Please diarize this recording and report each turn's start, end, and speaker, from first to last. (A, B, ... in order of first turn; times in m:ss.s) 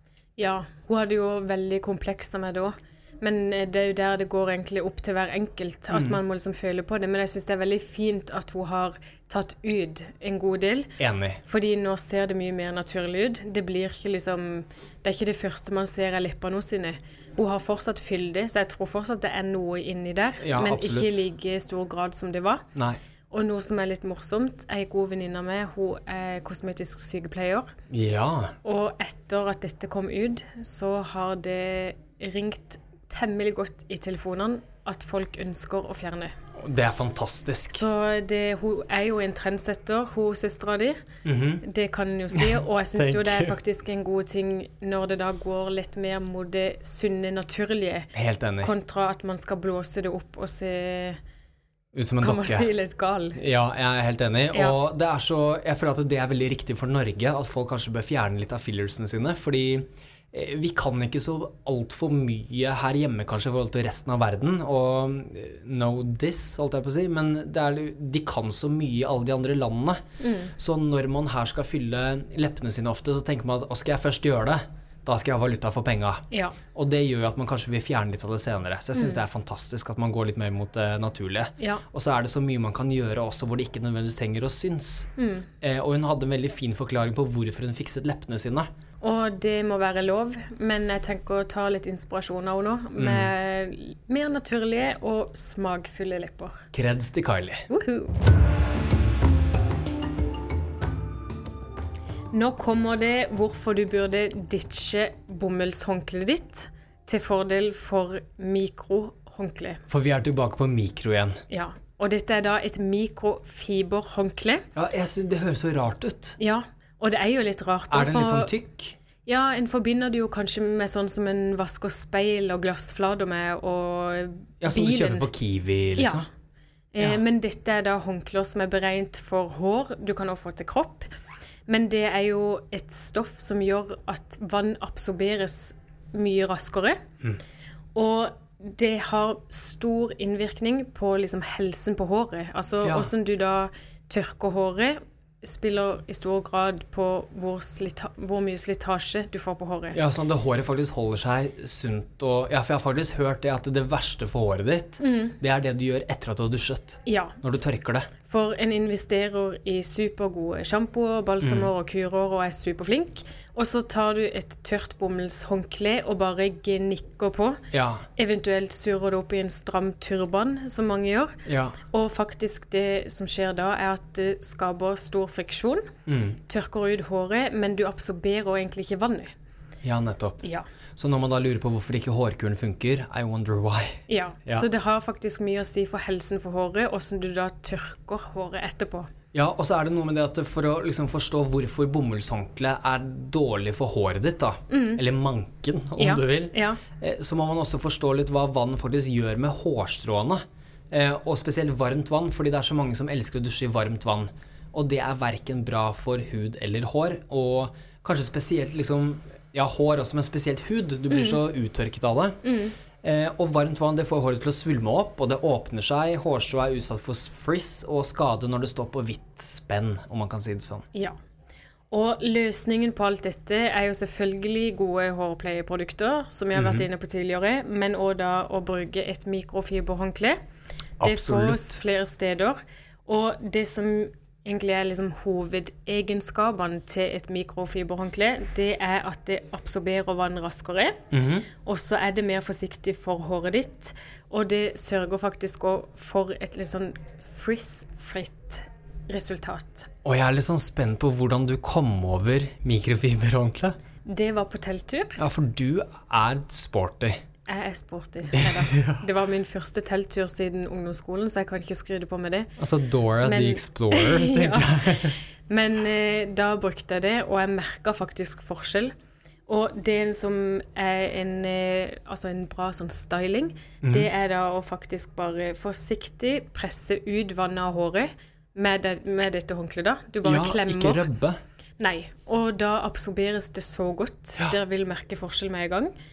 0:00.4-0:10.9 A
0:11.0-0:11.4 B
0:11.4-0:22.7 A
0:20.4-0:21.2 B
0:23.3-0:27.7 A
0:27.9-0:28.6 B
0:28.6-0:36.3 A
0:36.6-0:37.8 B
0:37.7-0:41.0 A
0:41.2-0:41.6 B
0:41.6-0:48.1 A
0:42.3-0:43.6 B
0:48.1-0:48.7 B
0:48.6-0:51.2 A
0:51.9-0:52.7 B
0:52.2-0:53.4 A
0:53.4-1:10.0 B
1:10.2-1:10.5 A
1:10.6-1:28.7 B
1:16.3-1:16.6 A
1:19.0-1:19.2 A
1:25.2-1:25.5 A
1:29.0-1:36.6 A
1:33.0-1:33.3 B
1:36.7-1:37.7 B
1:37.7-1:38.2 A
1:42.3-1:49.8 A
1:49.9-1:51.4 B
1:51.5-1:54.6 A
1:54.7-1:56.4 B
1:56.4-1:58.5 A
1:57.9-1:59.0 B
1:59.2-2:05.3 A
2:04.6-2:06.2 B
2:06.0-2:06.2 A
2:06.9-2:11.1 A
2:11.7-2:17.0 A
2:17.9-2:30.0 A
2:22.8-2:23.1 B
2:29.9-2:38.1 B
2:35.0-2:35.3 A
2:37.0-2:37.4 A
2:38.3-2:47.6 A
2:41.4-2:41.7 B
2:47.7-2:48.0 B
2:48.2-2:55.8 A
2:51.4-2:51.8 B
2:56.1-2:56.4 B
2:56.5-2:59.3 A
2:59.8-3:00.4 B
3:01.0-3:04.7 B
3:04.1-3:09.1 A
3:09.3-3:32.4 B
3:14.7-3:15.0 A
3:16.0-3:16.8 A
3:31.1-3:31.4 A
3:32.4-3:32.7 A
3:33.0-3:40.8 B
3:41.9-3:50.4 A
3:46.5-3:46.8 B
3:51.0-3:51.8 B
3:51.0-4:09.9 A
4:01.1-4:01.5 B
4:10.0-4:13.8 B
4:14.0-4:15.2 A
4:15.2-4:17.2 B
4:17.4-4:22.5 A
4:18.3-4:19.0 B
4:22.6-4:25.2 B
4:23.2-4:28.9 A
4:29.5-4:41.1 A
4:33.8-4:34.1 B
4:40.2-4:41.4 B
4:41.8-4:45.9 A